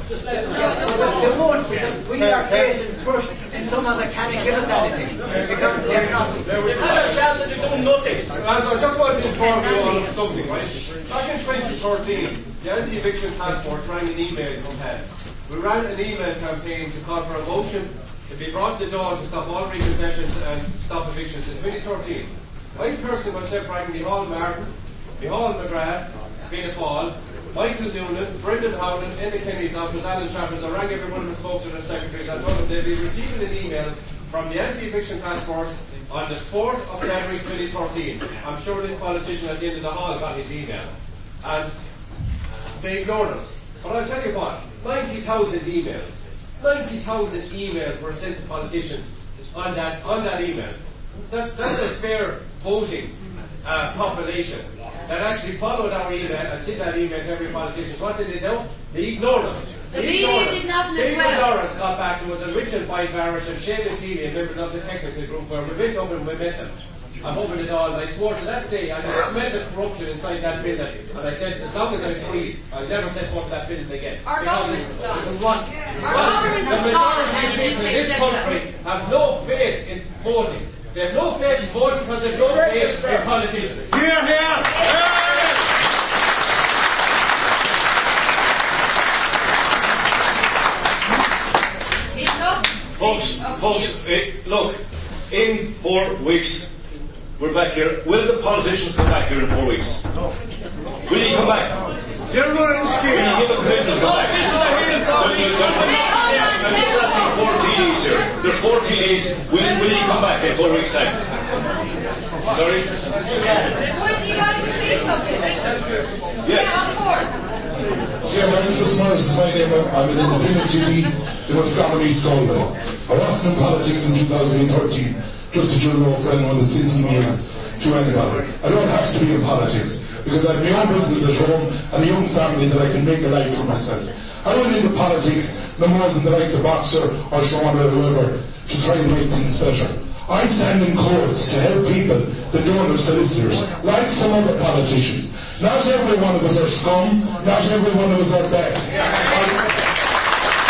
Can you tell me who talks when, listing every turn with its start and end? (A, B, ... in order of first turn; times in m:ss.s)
0:00.5-0:01.2 A
0:00.9-0:02.6 B
0:02.1-0:02.8 C
0:03.8-0:04.8 B
0:05.2-0:07.3 C
0:05.9-0:06.2 B
0:06.6-0:08.3 A
0:08.3-0:41.7 C
0:42.7-1:24.0 C
0:59.9-1:01.6 D
1:14.2-1:15.3 D
1:16.0-1:18.6 D
1:23.9-1:25.2 E
1:32.1-1:33.9 D
1:33.0-1:34.8 F
1:35.3-1:36.7 F
1:37.4-1:40.0 F
1:41.1-1:41.7 F
1:42.3-1:43.6 E
1:43.1-1:44.4 F
1:45.1-1:51.2 F
1:45.7-1:47.9 D
1:49.6-1:50.2 D
1:52.5-1:52.9 F
1:53.8-1:55.6 D
1:56.4-1:56.8 F
1:56.5-1:57.3 D
1:58.3-2:29.6 G